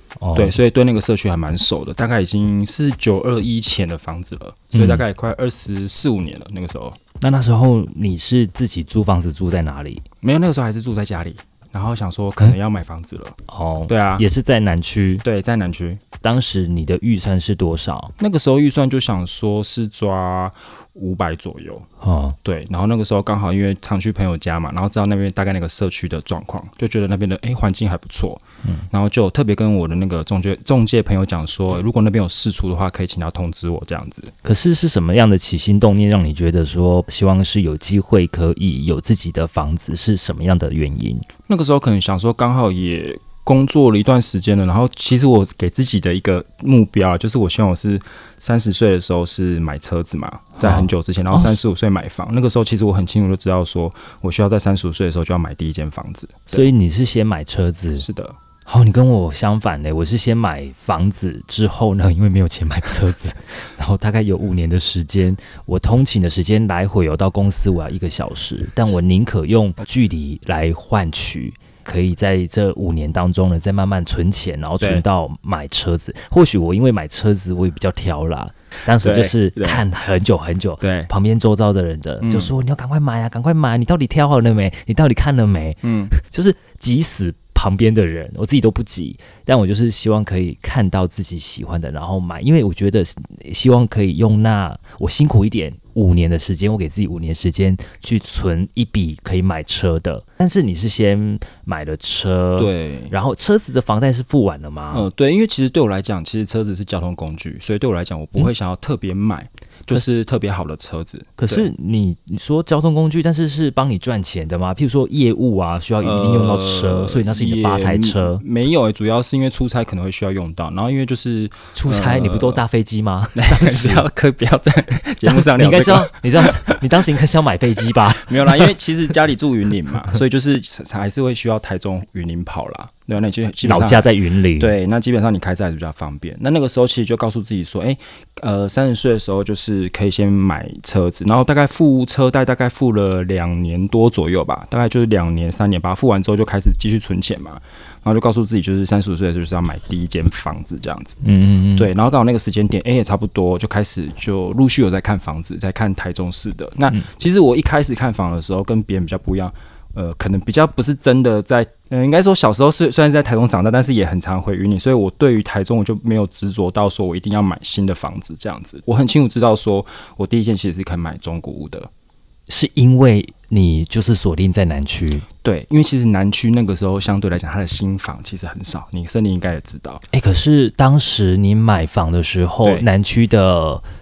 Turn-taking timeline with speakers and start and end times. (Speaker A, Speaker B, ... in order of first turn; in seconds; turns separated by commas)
Speaker A: 0.2-0.6, Speaker B: 0.3-7.0, Speaker A: 4.7-5.0, Speaker A: 7.2-10.0, Speaker B: 10.2-14.2, Speaker A: 13.5-15.2, Speaker B: 15.2-16.0, Speaker A: 16.2-18.1, Speaker B: 18.2-21.9, Speaker A: 22.0-22.4, Speaker B: 22.4-34.3, Speaker A: 34.4-41.3, Speaker B: 41.5-56.7, Speaker A: 50.6-51.6, Speaker A: 56.5-58.1, Speaker B: 58.0-58.4, Speaker A: 58.6-105.1, Speaker B: 79.0-79.8, Speaker B: 80.8-81.1, Speaker B: 82.2-82.5, Speaker B: 85.8-86.1, Speaker B: 102.6-103.1, Speaker B: 104.9-111.7, Speaker A: 111.4-118.4, Speaker B: 116.0-122.6, Speaker A: 121.7-124.0, Speaker B: 123.3-126.9, Speaker A: 125.3-128.8, Speaker B: 127.9-151.2, Speaker A: 133.6-134.8, Speaker A: 151.2-151.9, Speaker B: 151.8-171.9, Speaker A: 172.5-175.2, Speaker B: 175.4-180.0, Speaker A: 180.1-183.8